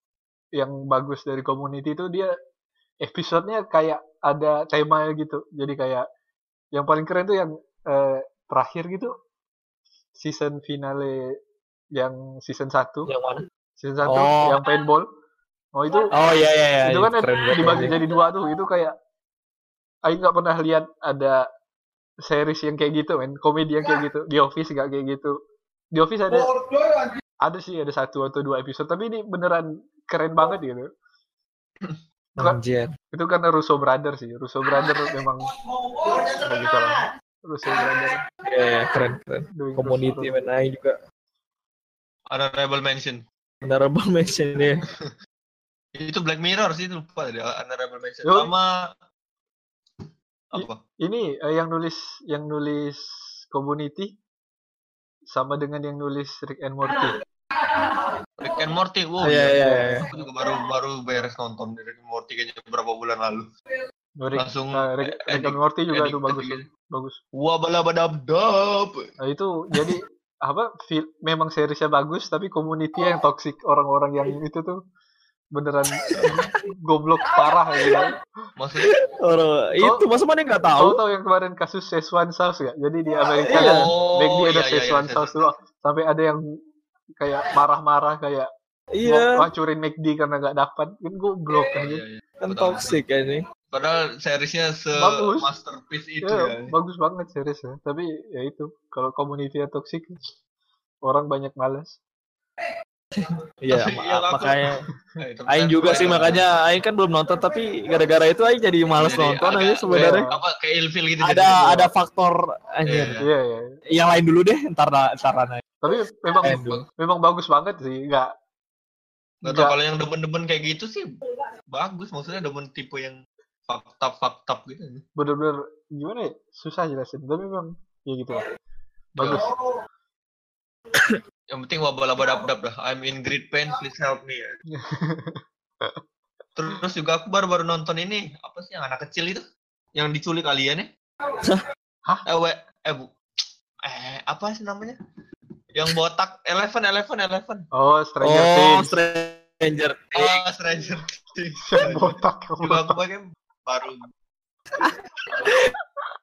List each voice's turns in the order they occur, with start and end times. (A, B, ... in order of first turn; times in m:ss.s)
0:00.6-0:02.3 A
0:03.0-0:06.0 A
0:06.8-0:09.1 A
0:10.2-0:11.2 A
0:12.0-0:13.1 A
0:13.1-0:13.4 B
0:13.8-0:15.1 A
0:14.1-0:14.6 B
0:15.8-0:16.1 A
0:16.1-0:18.0 B
0:16.8-0:18.9 A
0:20.1-0:21.4 A
0:22.2-0:25.3 A
0:25.9-0:26.5 A
0:27.4-0:30.9 A
0:32.4-0:32.9 B
0:33.1-0:35.5 A
0:36.0-0:36.3 B
0:36.4-0:38.2 A
0:38.4-0:41.0 B
0:39.6-0:40.3 A
0:42.3-0:43.2 C
0:43.6-0:44.8 B
0:46.0-0:48.9 C
0:48.2-0:48.5 A
0:50.5-0:50.8 C
0:50.6-0:54.1 A
0:55.3-0:57.2 A
0:57.6-0:58.1 B
0:58.4-1:03.5 C
0:59.2-1:00.1 B
0:59.6-1:00.0 A
1:04.2-1:07.2 A
1:04.4-1:06.7 C
1:07.3-1:09.0 C
1:09.2-1:14.8 A
1:15.6-1:18.1 A
1:16.0-1:16.6 B
1:17.3-1:18.0 B
1:18.6-1:18.9 C
1:18.8-1:21.0 B
1:19.8-1:20.0 A
1:20.8-1:26.4 A
1:23.5-1:23.9 B
1:23.5-1:25.5 C
1:27.2-1:28.5 A
1:28.9-1:29.4 B
1:29.0-1:32.0 A
1:31.8-1:33.0 C
1:32.4-1:33.4 B
1:33.7-1:36.7 C
1:35.0-1:35.5 A
1:36.2-1:40.2 A
1:41.0-1:42.0 A
1:43.2-1:44.8 B
1:43.7-1:44.6 C
1:45.2-1:46.5 C
1:45.5-1:50.2 B
1:48.9-1:51.9 C
1:49.9-1:50.4 A
1:51.2-1:53.2 B
1:52.9-1:53.3 C
1:53.2-1:53.6 A
1:53.9-1:55.6 B
1:55.8-1:58.3 A
1:56.4-1:56.8 B
1:56.5-1:56.8 C
1:59.4-2:01.1 C
1:59.4-1:59.8 A
2:01.7-2:05.0 C
2:05.2-2:08.4 A
2:09.2-2:09.5 A
2:09.2-2:09.4 C
2:10.9-2:11.2 B
2:11.5-2:14.5 C
2:14.8-2:16.0 A
2:16.6-2:19.4 C
2:20.0-2:20.9 C
2:22.3-2:25.0 C
2:25.7-2:27.6 C
2:27.7-2:28.9 A
2:28.2-2:30.4 B
2:30.2-2:34.0 C
2:31.6-2:33.0 A
2:34.8-2:35.4 C
2:35.4-2:35.7 B